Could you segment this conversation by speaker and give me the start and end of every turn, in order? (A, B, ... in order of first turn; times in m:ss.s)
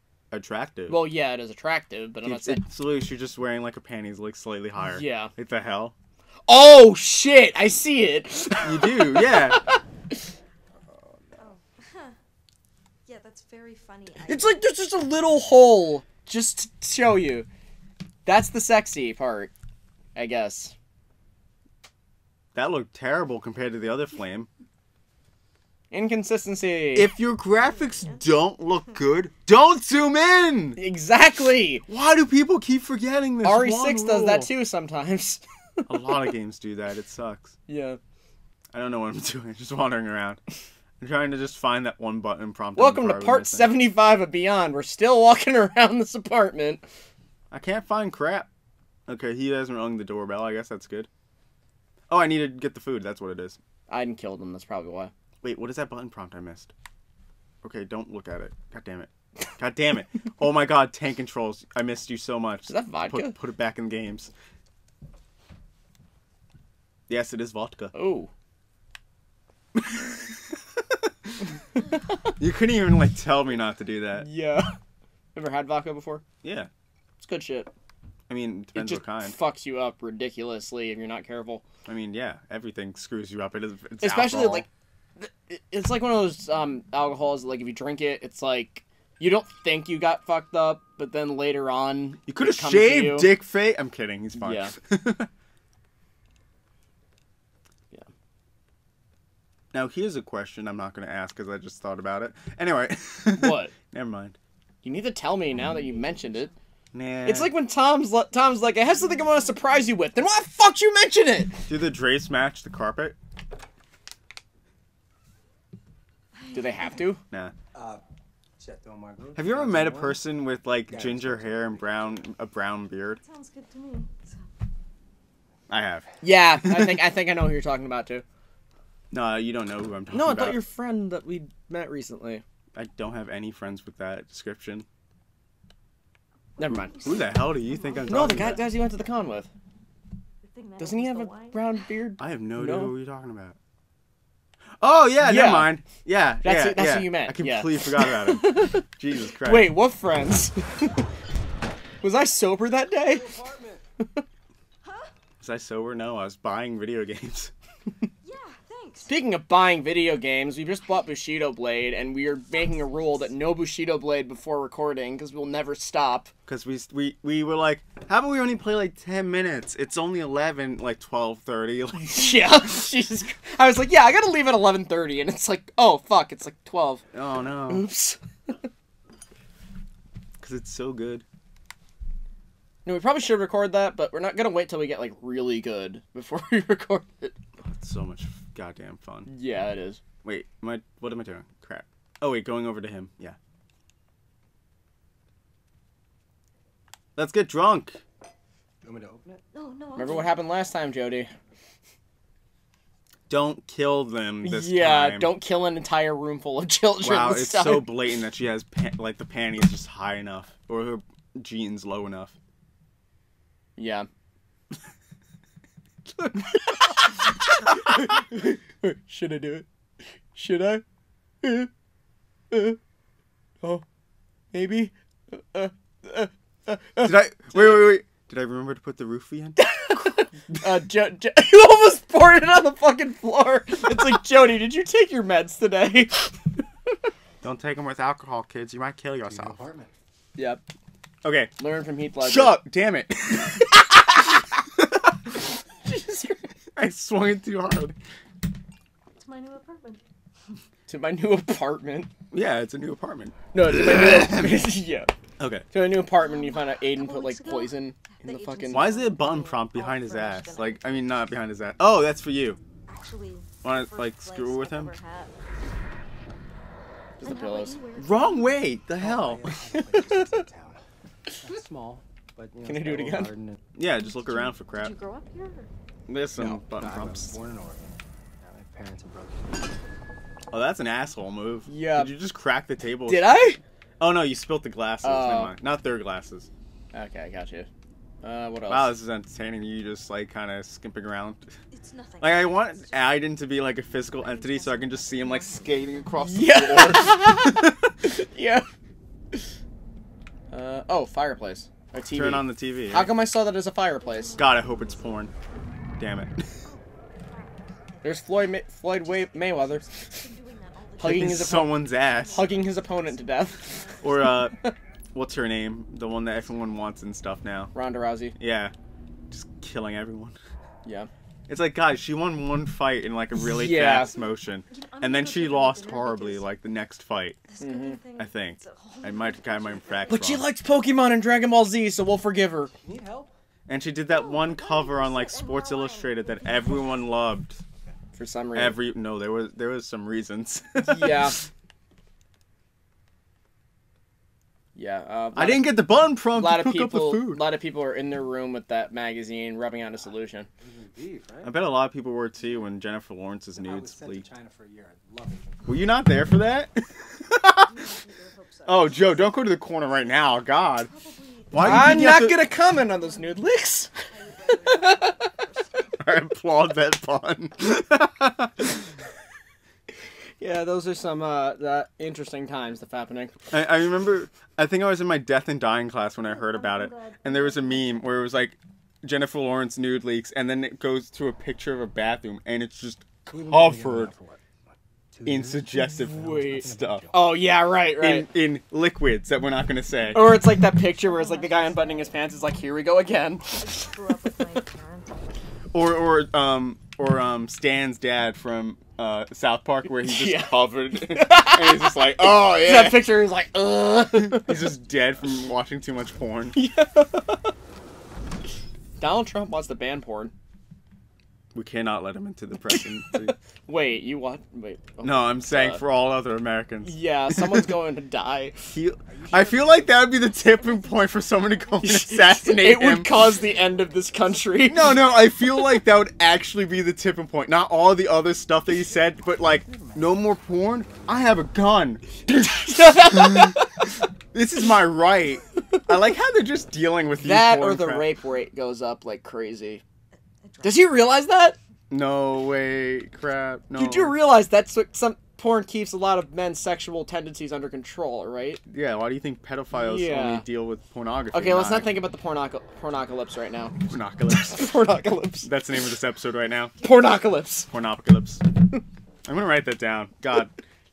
0:00.3-0:01.1 A
0:00.9-0:02.6 B
0:02.2-0:05.9 A
0:04.9-0:05.3 B
0:06.5-0:09.8 B
0:08.6-0:09.6 A
0:11.0-0:11.4 C
0:11.4-0:12.2 D
0:13.1-0:14.6 D
0:14.2-0:17.5 B
0:18.3-0:19.5 B
0:20.2-0:20.7 B
0:22.5-0:24.5 A
0:25.9-0:27.1 B
0:27.0-0:30.8 A
0:30.8-0:31.8 B
0:31.9-0:34.5 A
0:33.4-0:36.3 B
0:35.9-0:37.5 A
0:37.7-0:38.0 B
0:38.7-0:40.4 A
0:41.0-0:43.8 A
0:42.8-0:46.9 B
0:47.5-0:48.5 A
0:49.1-0:51.1 A
0:52.1-0:53.6 A
0:53.9-0:55.1 B
0:55.4-0:56.7 A
0:57.6-1:04.3 A
1:02.7-1:03.4 B
1:07.1-1:07.9 A
1:07.9-1:08.3 B
1:09.8-1:10.2 A
1:10.8-1:11.3 A
1:11.8-1:12.3 B
1:12.4-1:14.3 A
1:14.2-1:14.8 B
1:15.4-1:16.2 B
1:16.4-1:16.7 A
1:17.2-1:17.7 B
1:18.3-1:19.4 A
1:18.7-1:21.6 B
1:21.9-1:24.7 A
1:24.0-1:24.7 B
1:25.2-1:33.4 B
1:32.3-1:35.3 A
1:34.4-1:34.8 B
1:39.7-1:44.4 A
1:43.4-1:43.7 B
1:44.8-1:46.5 B
1:45.6-1:46.5 D
1:46.9-1:47.5 A
1:47.2-1:51.6 B
1:49.0-1:49.3 D
1:51.7-1:53.2 A
1:56.4-1:57.1 D
1:56.5-1:57.2 B
1:57.7-1:58.0 C
1:58.6-2:00.3 C
1:59.4-2:03.2 A
2:00.9-2:02.1 C
2:03.2-2:04.4 D
2:05.7-2:07.0 A
2:06.2-2:08.2 B
2:09.1-2:10.6 A
2:10.1-2:12.4 B
2:12.8-2:14.9 A
2:16.6-2:17.0 B
2:16.7-2:18.6 D
2:17.0-2:18.7 A
2:18.1-2:19.5 B
2:20.4-2:21.8 D
2:20.8-2:22.9 B
2:22.2-2:23.6 A
2:24.8-2:29.7 A
2:25.2-2:25.8 B
2:26.4-2:31.0 B
2:32.0-2:33.4 B
2:33.1-2:33.8 C
2:34.8-2:35.1 D
2:35.4-2:37.5 A
2:38.2-2:39.1 D
2:39.1-2:46.3 B
2:42.4-2:43.4 D
2:46.5-2:52.5 A
2:52.0-2:57.0 B
2:57.1-2:57.9 A
2:57.7-2:58.7 B
3:00.4-3:01.2 A
3:02.8-3:07.4 B
3:07.6-3:09.3 A
3:09.3-3:10.0 B
3:10.2-3:13.4 A
3:17.2-3:18.0 A
3:18.8-3:19.4 C
3:19.5-3:20.4 D
3:20.0-3:21.3 B
3:23.3-3:25.3 A
3:24.4-3:28.0 B
3:27.0-3:32.4 A
3:33.8-3:34.1 B
3:36.2-3:39.7 B
3:40.3-3:40.8 B
3:41.4-3:41.7 B
3:42.5-3:42.8 B
3:44.5-3:47.8 B
3:47.0-3:50.2 A
3:49.6-3:56.5 B
3:57.4-3:59.6 A
3:59.3-3:59.9 C
4:00.4-4:00.6 B
4:01.2-4:01.5 A
4:01.6-4:02.6 B
4:02.2-4:03.9 A
4:05.9-4:06.4 B
4:06.8-4:08.0 A
4:09.2-4:10.0 D
4:10.9-4:12.1 B
4:12.3-4:14.4 A
4:13.5-4:15.1 B
4:15.4-4:15.6 A
4:15.7-4:18.9 B
4:16.1-4:21.3 D
4:18.7-4:22.6 A
4:22.9-4:25.3 D
4:23.6-4:25.0 A
4:27.2-4:27.8 B
4:27.2-4:28.7 D
4:28.0-4:29.6 A
4:29.0-4:30.8 C
4:29.7-4:30.4 B
4:31.4-4:33.6 C
4:32.6-4:33.3 B
4:33.7-4:35.0 A
4:33.9-4:35.7 D
4:36.1-4:37.4 A
4:36.4-4:39.6 C
4:40.5-4:46.5 A
4:41.7-4:42.1 B
4:43.1-4:43.6 B
4:45.0-4:45.5 B
4:46.9-4:47.7 B
4:48.2-4:48.9 B
4:48.7-4:51.5 A
4:51.7-4:53.3 D
4:52.2-4:57.7 A
4:54.0-4:56.8 D
4:56.2-4:58.7 B
5:00.5-5:04.4 B
5:02.1-5:03.1 A
5:04.0-5:05.4 D
5:04.4-5:05.3 A
5:06.0-5:06.5 A
5:06.6-5:08.0 D
5:08.0-5:09.8 B
5:09.0-5:14.4 D
5:11.0-5:12.6 A
5:11.0-5:14.7 B
5:14.0-5:14.6 A
5:15.2-5:17.7 A
5:17.7-5:18.4 B
5:18.4-5:18.7 A
5:19.3-5:20.4 A
5:20.8-5:21.1 B
5:21.5-5:27.4 A
5:23.4-5:24.2 B
5:24.7-5:26.5 D
5:27.5-5:30.4 D
5:27.6-5:28.0 B
5:28.2-5:30.4 A
5:30.1-5:32.7 B
5:32.7-5:33.3 C
5:33.7-5:37.6 A
5:34.1-5:37.1 D
5:38.2-5:38.8 B
5:38.6-5:41.4 A
5:40.8-5:41.4 B
5:44.8-5:45.8 B
5:45.3-5:47.4 A
5:46.3-5:50.5 B
5:50.6-5:51.5 C
5:51.4-5:54.3 A
5:52.4-5:52.7 D
5:53.6-5:55.7 C
5:55.7-5:57.9 A
5:55.7-5:56.1 D
5:57.5-6:03.5 D
5:58.7-6:00.9 A
6:01.5-6:02.4 A
6:01.6-6:03.9 B
6:04.1-6:06.0 D
6:04.5-6:05.3 B
6:06.0-6:08.7 A
6:10.4-6:13.4 B
6:13.5-6:24.1 A
6:16.2-6:17.9 D
6:23.3-6:24.4 C
6:25.1-6:27.4 C
6:25.2-6:27.1 A
6:26.0-6:28.3 B
6:28.0-6:30.3 A
6:30.1-6:33.7 B
6:30.8-6:32.7 D
6:33.4-6:35.4 D
6:35.7-6:43.1 A
6:39.9-6:44.7 B
6:44.1-6:46.6 A
6:46.6-6:47.5 B
6:49.0-6:50.3 B
6:51.5-6:53.4 A
6:52.7-6:55.8 B
6:55.0-6:57.7 A
6:56.8-6:58.8 B
6:58.7-7:03.4 A
6:59.1-7:00.1 C
7:00.4-7:02.1 D
7:01.8-7:05.1 B
7:03.0-7:05.3 D
7:04.7-7:13.6 A
7:09.0-7:11.7 C
7:12.5-7:13.9 B
7:14.3-7:18.1 A
7:17.2-7:19.8 B
7:20.4-7:21.2 D
7:20.6-7:21.6 B
7:21.9-7:24.2 A
7:23.7-7:28.6 B
7:28.7-7:32.0 A
7:29.7-7:30.4 B
7:31.3-7:35.5 B
7:33.9-7:34.8 A
7:35.4-7:36.8 A
7:36.7-7:37.7 D
7:36.8-7:37.7 B
7:37.7-7:38.4 A
7:39.2-7:40.5 A